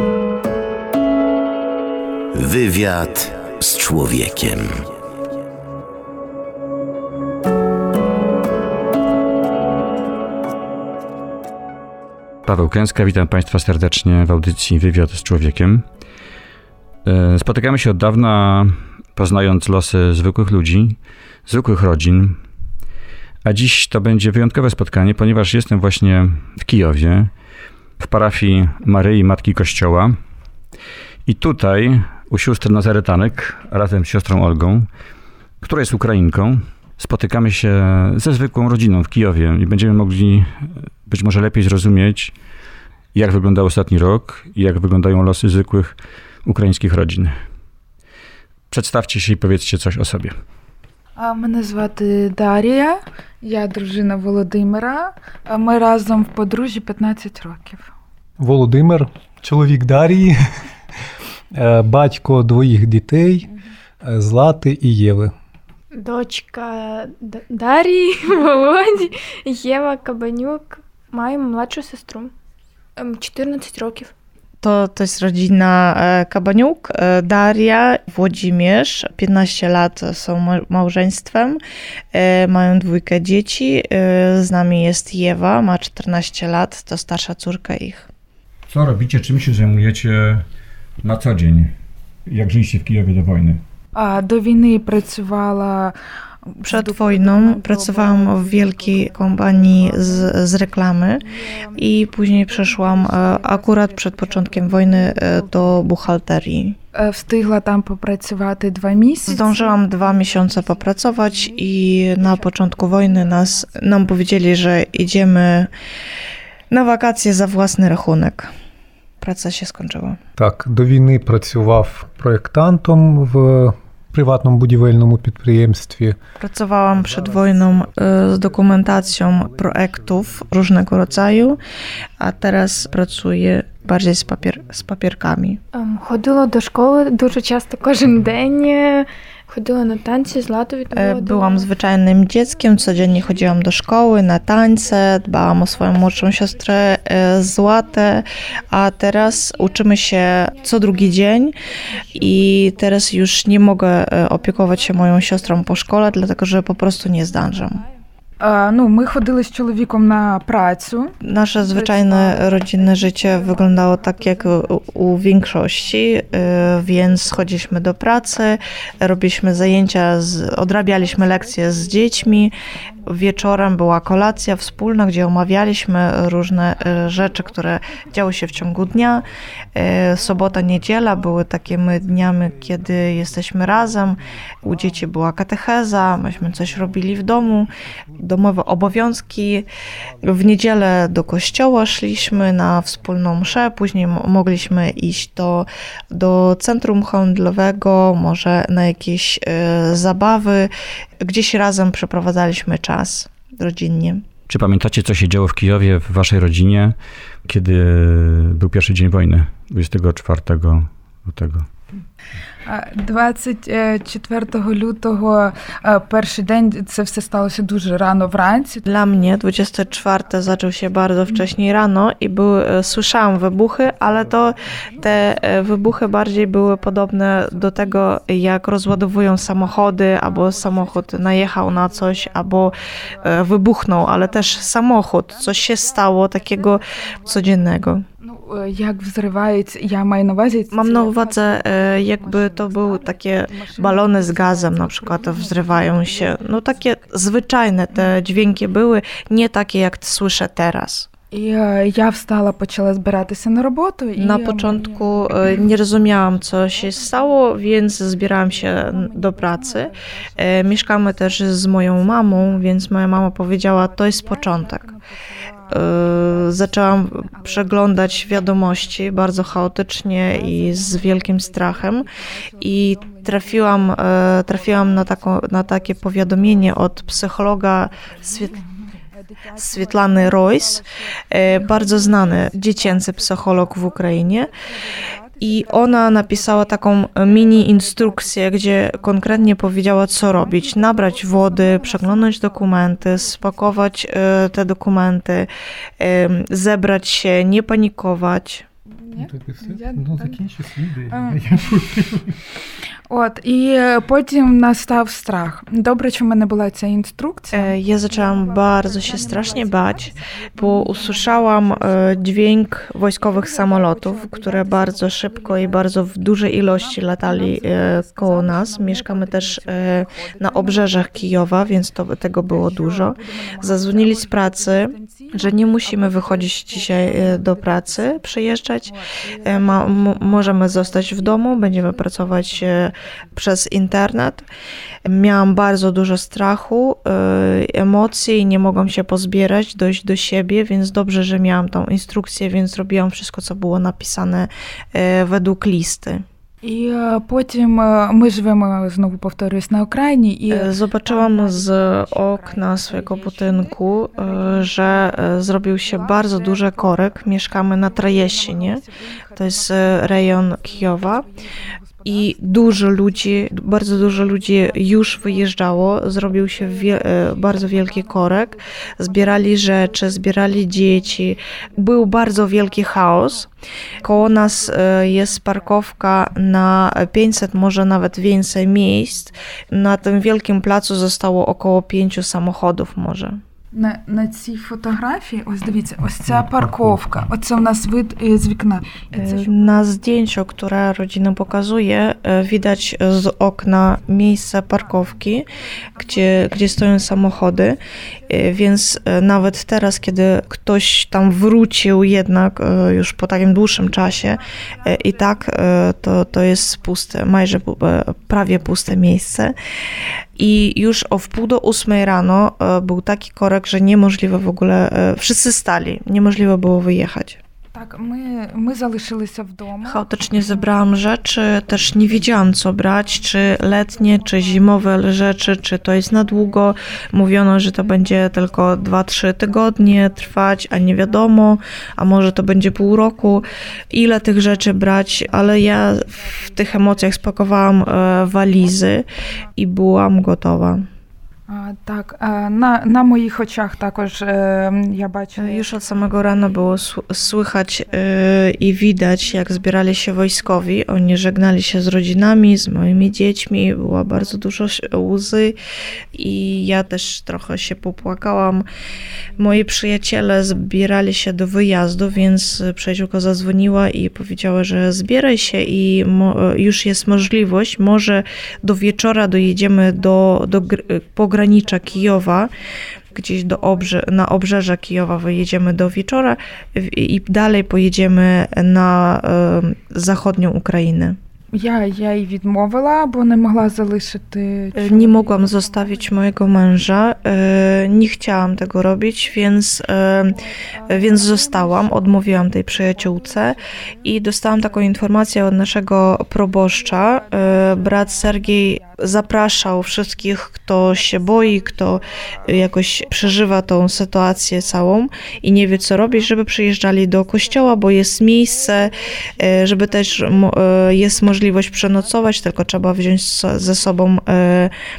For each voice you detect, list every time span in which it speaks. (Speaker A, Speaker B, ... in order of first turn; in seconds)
Speaker A: 2.3-4.8
Speaker B: 12.4-15.8, 17.0-22.4, 23.4-27.3, 28.0-30.2, 31.2-34.9, 35.6-42.3, 43.1-47.4, 48.7-50.4, 88.7-90.4, 91.0-91.7, 92.3-93.6, 204.5-206.9, 207.4-211.7
Speaker C: 51.1-57.9, 93.9-95.9, 96.5-100.5, 101.2-105.8, 106.9-115.3, 142.9-143.7, 145.7-147.0, 151.9-152.7, 154.4-156.4, 157.3-157.8, 158.4-168.4, 169.0-174.7, 176.7-178.2, 212.7-221.5, 222.9-223.2, 223.9-228.6, 229.1-234.8, 235.3-247.0, 251.3-262.9, 263.7-269.3, 270.3-277.3, 277.9-294.0, 299.0-300.4, 301.1-301.4, 303.1-312.5, 313.2-321.9, 322.4-332.9, 346.6-376.3, 378.7-379.3, 383.7-389.9, 394.9-398.3, 398.8-399.2, 403.8-405.6, 406.2-407.4, 417.7-421.2, 423.0-431.4, 432.0-438.8, 441.5-446.8, 447.4-449.8, 450.4-450.8, 455.9-456.6, 469.4-474.1, 481.5-486.7, 490.3-495.1, 496.5-513.0, 513.6-514.0
Speaker D: 58.4-60.4, 61.5-63.5, 64.0-65.3, 120.3-126.2, 126.9-130.2, 299.1-302.4
Speaker E: 65.9-72.3, 73.0-74.1, 135.7-141.7
Speaker F: 74.6-81.6, 82.1-88.1, 96.7-106.8, 109.2-115.7, 116.7-118.5, 119.2-120.2, 126.4-131.6, 132.2-135.6, 140.9-151.6, 152.1-157.8, 161.2-172.5, 173.1-189.6, 190.2-204.2, 218.8-238.0, 240.7-251.1, 254.2-264.9, 265.7-272.1, 272.6-278.6, 279.6-284.5, 285.4-295.5, 296.0-298.6, 307.5-328.9, 329.4-334.5, 335.0-346.2, 350.5-358.8, 359.4-361.3, 362.0-373.5, 374.0-383.4, 389.1-409.6, 410.4-417.4, 419.8-440.9, 445.4-455.6, 456.1-458.7, 459.4-472.5, 473.1-481.2, 484.7-514.7